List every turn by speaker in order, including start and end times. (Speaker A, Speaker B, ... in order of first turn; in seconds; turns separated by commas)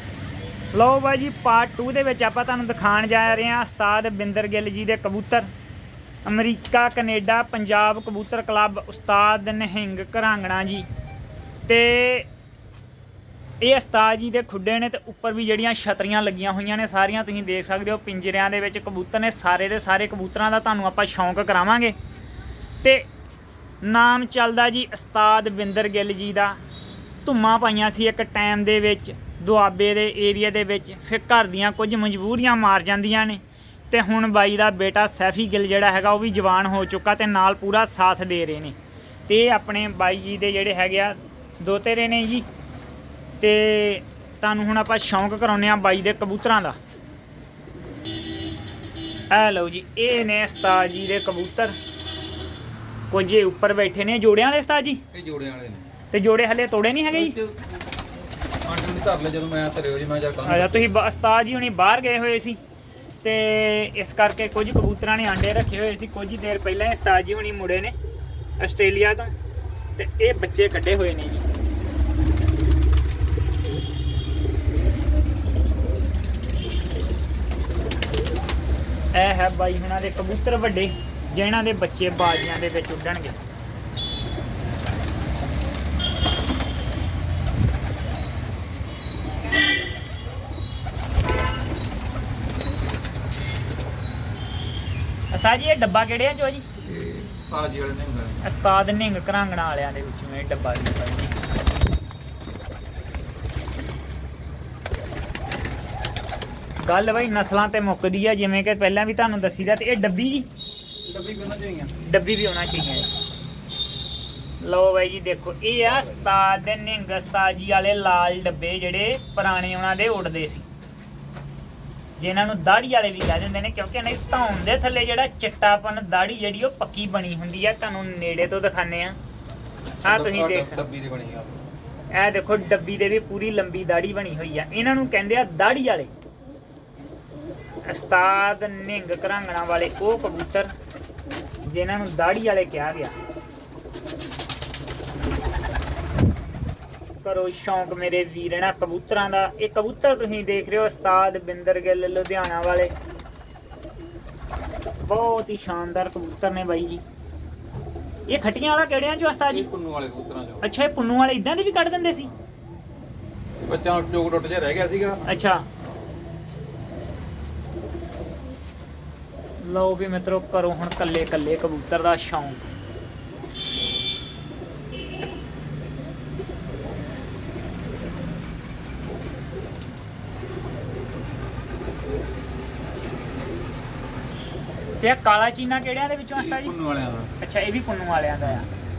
Speaker A: 0.7-5.5, Speaker A: 6.2-10.9, Speaker A: 11.7-12.3, Speaker A: 13.6-21.9, Speaker A: 22.8-23.1, Speaker A: 23.8-26.6, Speaker A: 27.2-38.8, Speaker A: 39.3-42.5, Speaker A: 43.4-46.8, Speaker A: 49.3-51.8, Speaker A: 53.1-55.0, Speaker B: 55.1-55.9, Speaker A: 56.1-57.4, Speaker B: 57.1-60.9, Speaker A: 60.5-62.6, Speaker A: 63.2-67.9, Speaker A: 68.6-69.3, Speaker A: 70.0-71.4, Speaker A: 79.1-83.4, Speaker A: 95.3-96.7, Speaker B: 96.8-98.4, Speaker A: 98.4-101.3, Speaker A: 106.8-110.5, Speaker B: 111.0-111.9, Speaker A: 112.0-113.1, Speaker A: 114.6-120.7, Speaker B: 115.8-116.3, Speaker A: 122.2-129.2, Speaker A: 130.0-130.8, Speaker B: 130.0-131.6, Speaker A: 132.1-136.1, Speaker A: 137.8-140.7, Speaker A: 141.7-143.2, Speaker A: 147.2-152.9, Speaker A: 155.1-157.0, Speaker A: 158.3-159.7, Speaker B: 159.5-160.7, Speaker A: 160.6-162.3, Speaker B: 163.6-166.0, Speaker A: 165.2-165.7, Speaker A: 169.6-172.7, Speaker A: 185.0-186.7, Speaker B: 186.3-187.3, Speaker A: 187.4-188.7